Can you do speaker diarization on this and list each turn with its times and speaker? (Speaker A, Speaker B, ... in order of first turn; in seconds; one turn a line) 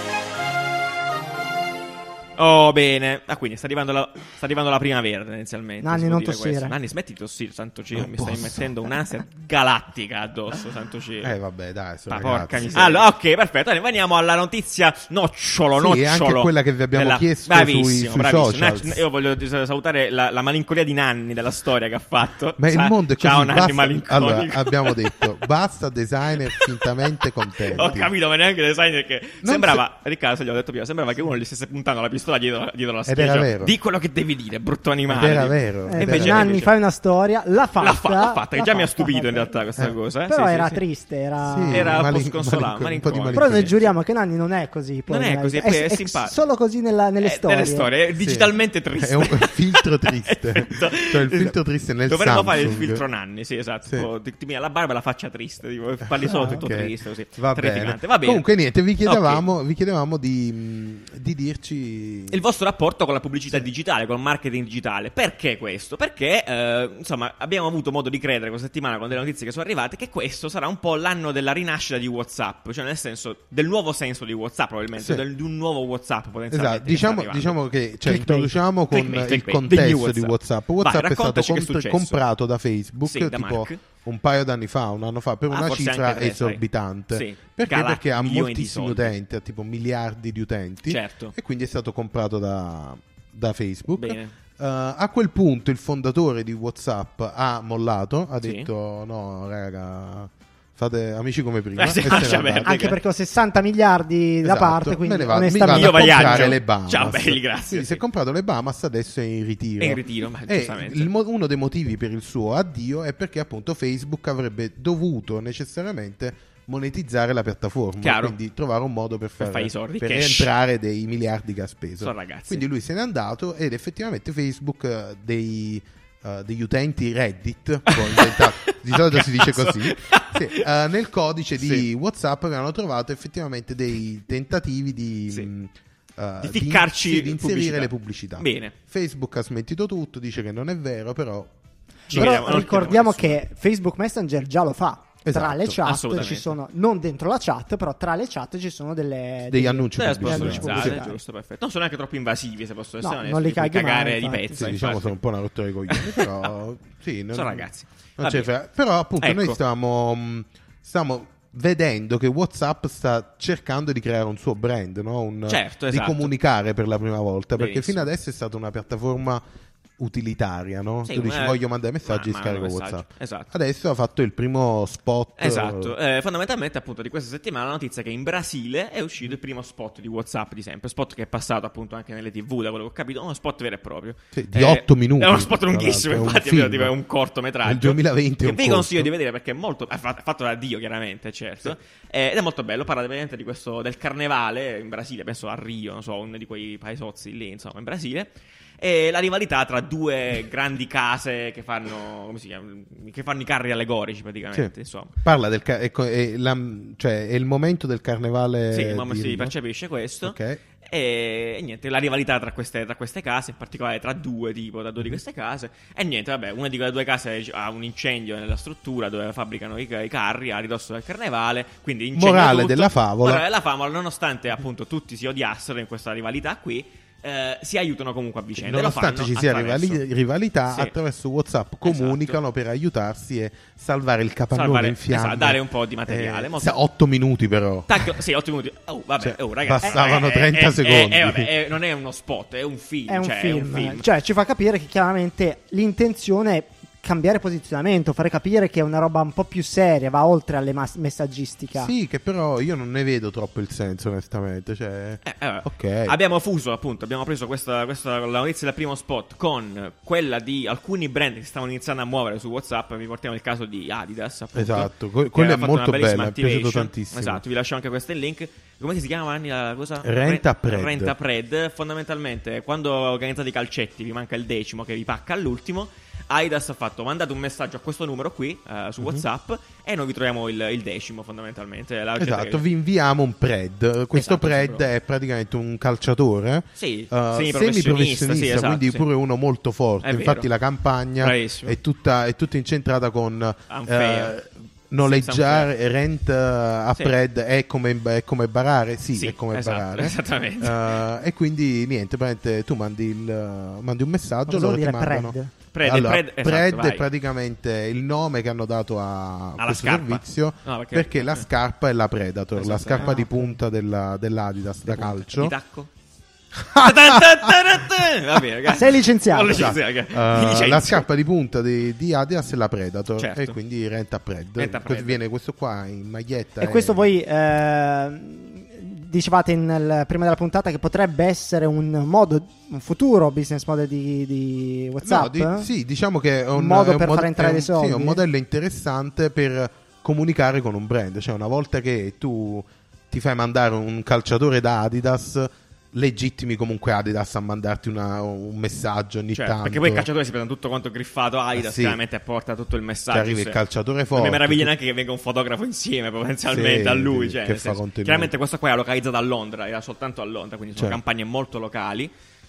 Speaker A: 2.4-11.3
Speaker B: 5.8-6.7
Speaker C: 7.9-8.7
Speaker C: 11.2-13.0
Speaker A: 12.1-25.2
Speaker C: 15.8-19.0
Speaker C: 22.6-28.1
Speaker A: 27.7-36.7
Speaker C: 29.4-29.8
Speaker C: 33.0-33.8
Speaker C: 35.1-36.6
Speaker B: 35.9-39.5
Speaker A: 37.8-40.8
Speaker B: 40.3-42.0
Speaker C: 41.4-43.7
Speaker A: 41.7-43.8
Speaker B: 43.3-47.9
Speaker A: 45.1-46.3
Speaker A: 47.2-51.5
Speaker C: 48.2-53.0
Speaker A: 52.0-58.4
Speaker B: 56.2-56.6
Speaker C: 56.5-62.4
Speaker A: 59.0-59.4
Speaker A: 62.3-77.6
Speaker C: 75.0-75.2
Speaker C: 76.5-102.9
Speaker B: 78.0-78.5
Speaker A: 78.9-82.2
Speaker A: 83.0-83.8
Speaker A: 85.5-89.1
Speaker A: 90.8-91.3
Speaker A: 94.0-94.3
Speaker A: 98.4-98.7
Speaker A: 101.8-103.0
Speaker B: 102.6-106.5
Speaker C: 104.4-141.5
Speaker A: 105.6-108.0
Speaker A: 109.8-111.1
Speaker A: 118.0-118.4
Speaker A: 119.4-120.5
Speaker A: 122.0-122.7
Speaker A: 127.9-130.6
Speaker A: 131.6-131.8
Speaker A: 136.4-138.7
Speaker A: 142.1-143.4
Speaker C: 142.1-142.4
Speaker B: 142.1-151.1
Speaker C: 145.2-145.8
Speaker A: 145.8-146.6
Speaker C: 149.5-151.1
Speaker A: 149.9-155.2
Speaker B: 153.0-154.7
Speaker C: 154.5-157.7
Speaker A: 155.9-156.4
Speaker A: 157.3-158.5
Speaker C: 158.2-169.4
Speaker A: 159.2-159.6
Speaker A: 165.5-166.3
Speaker A: 167.6-168.1
Speaker C: 170.0-175.9
Speaker A: 171.1-173.5
Speaker A: 175.4-205.1
Speaker C: 184.3-186.9
Speaker C: 187.6-189.1
Speaker C: 204.5-209.5
Speaker A: 208.7-230.0
Speaker C: 210.2-210.6
Speaker C: 222.1-223.4
Speaker C: 228.6-238.1
Speaker A: 231.8-232.4
Speaker A: 234.5-236.8
Speaker A: 237.9-244.1
Speaker C: 239.2-241.5
Speaker B: 243.1-251.9
Speaker C: 251.8-256.1
Speaker A: 255.2-282.6
Speaker C: 264.5-267.4
Speaker C: 270.0-271.1
Speaker C: 282.2-315.5
Speaker A: 284.1-284.8
Speaker A: 286.8-289.1
Speaker A: 290.0-290.5
Speaker A: 291.2-291.8
Speaker A: 293.7-294.4
Speaker A: 295.0-295.7
Speaker A: 299.1-301.0
Speaker B: 304.5-305.5
Speaker A: 305.7-307.1
Speaker A: 309.6-311.4
Speaker A: 312.6-313.3
Speaker A: 314.9-315.9
Speaker C: 316.6-317.6
Speaker A: 316.8-321.1
Speaker B: 318.7-319.7
Speaker C: 319.4-327.0
Speaker A: 323.2-323.6
Speaker A: 324.6-325.2
Speaker B: 326.6-335.7
Speaker C: 335.0-350.1
Speaker B: 336.5-338.2
Speaker A: 349.3-353.6
Speaker C: 351.5-352.0
Speaker C: 353.1-354.7
Speaker A: 354.1-362.1
Speaker C: 356.5-358.3